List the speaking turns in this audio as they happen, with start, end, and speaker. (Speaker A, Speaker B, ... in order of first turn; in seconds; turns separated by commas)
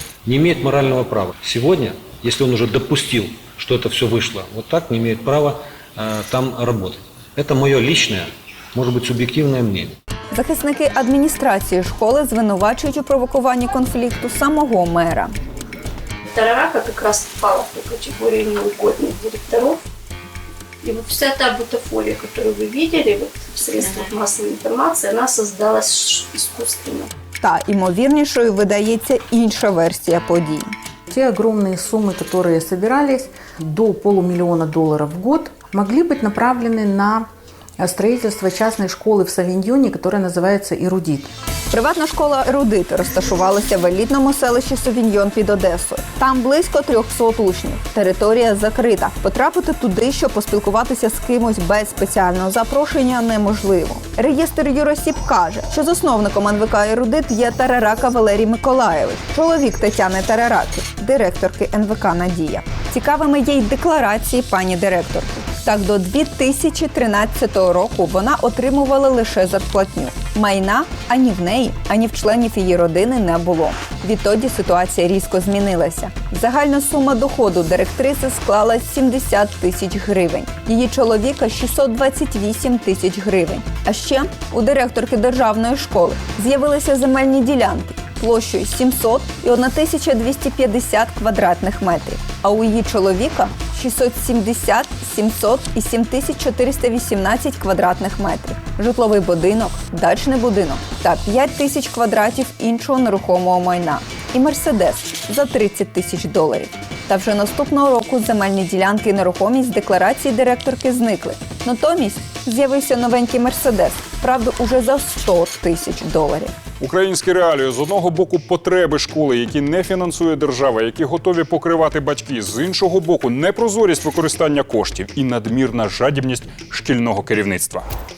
Speaker A: 0.2-10.0, Speaker B: 10.3-15.3, Speaker C: 16.4-19.7, Speaker C: 20.8-27.1, Speaker B: 27.4-30.8, Speaker D: 31.1-41.3, Speaker B: 41.7-116.5, Speaker E: 116.8-127.9